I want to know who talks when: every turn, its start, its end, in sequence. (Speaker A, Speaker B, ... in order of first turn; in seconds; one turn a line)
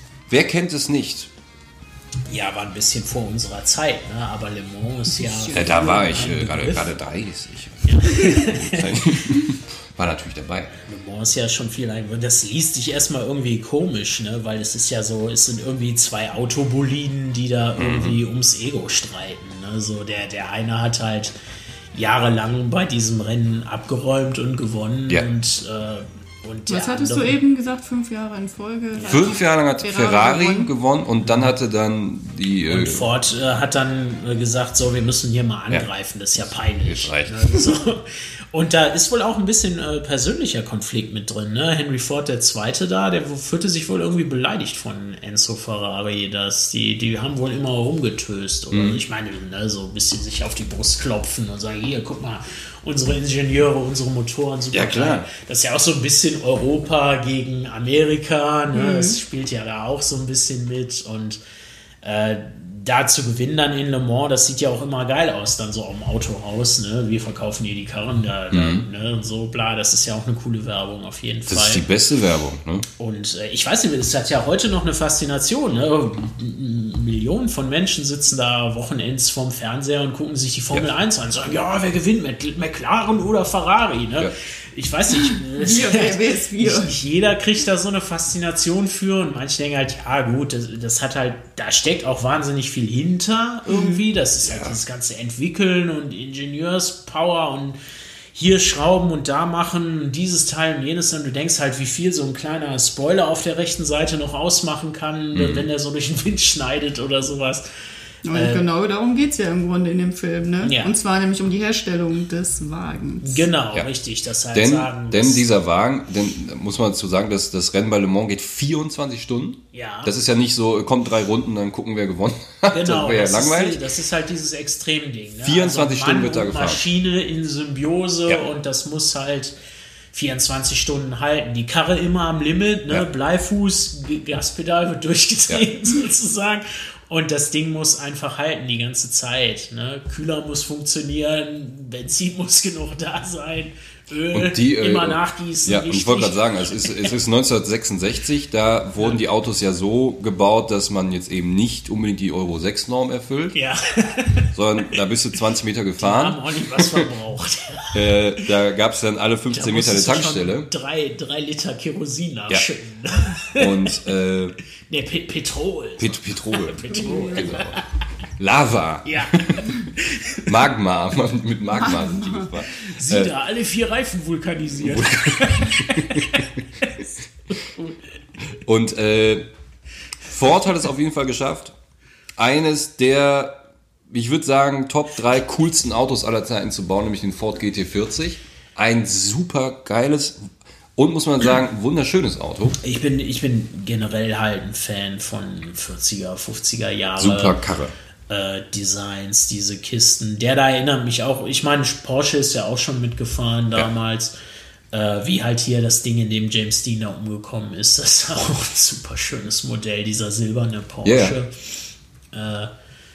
Speaker A: 0.3-1.3
Speaker B: 2.3-7.0
Speaker C: 5.1-6.3
Speaker A: 5.5-10.7
Speaker B: 7.8-9.3
Speaker B: 10.9-21.3
Speaker A: 17.8-18.2
Speaker B: 21.9-27.4
Speaker C: 26.7-30.7
Speaker B: 28.9-29.3
Speaker A: 29.0-33.1
Speaker B: 31.2-31.5
Speaker B: 32.7-61.4
Speaker A: 36.8-37.4
Speaker A: 48.7-49.0
Speaker A: 54.7-55.3
Speaker C: 58.7-59.2
Speaker B: 62.0-71.8
Speaker A: 68.5-68.8
Speaker A: 71.5-72.9
Speaker B: 73.0-97.8
Speaker C: 85.5-86.9
Speaker C: 93.7-94.0
Speaker A: 94.4-94.8
Speaker B: 98.3-107.7
Speaker A: 105.3-105.7
Speaker C: 108.3-113.5
Speaker B: 108.3-108.6
Speaker B: 110.6-110.9
Speaker B: 113.2-115.5
Speaker A: 114.5-123.8
Speaker B: 119.7-120.1
Speaker B: 122.7-129.6
Speaker A: 125.4-126.8
Speaker B: 130.1-147.1
Speaker A: 144.3-153.6
Speaker B: 153.5-154.9
Speaker A: 154.5-157.1
Speaker B: 156.0-158.5
Speaker A: 157.9-160.7
Speaker B: 159.5-164.0
Speaker A: 163.6-164.6
Speaker B: 164.9-167.8
Speaker A: 166.0-166.8
Speaker C: 166.9-167.6
Speaker A: 167.3-167.8
Speaker A: 168.4-169.7
Speaker B: 169.0-170.5
Speaker A: 170.5-173.3
Speaker C: 171.8-172.5
Speaker B: 172.8-178.0
Speaker A: 174.8-176.4
Speaker A: 178.5-179.5
Speaker A: 180.3-181.7
Speaker A: 182.4-183.6
Speaker A: 184.1-192.8
Speaker B: 192.8-197.6
Speaker A: 197.2-197.9
Speaker B: 198.3-204.3
Speaker B: 204.9-211.8
Speaker A: 211.1-211.4
Speaker B: 212.3-212.7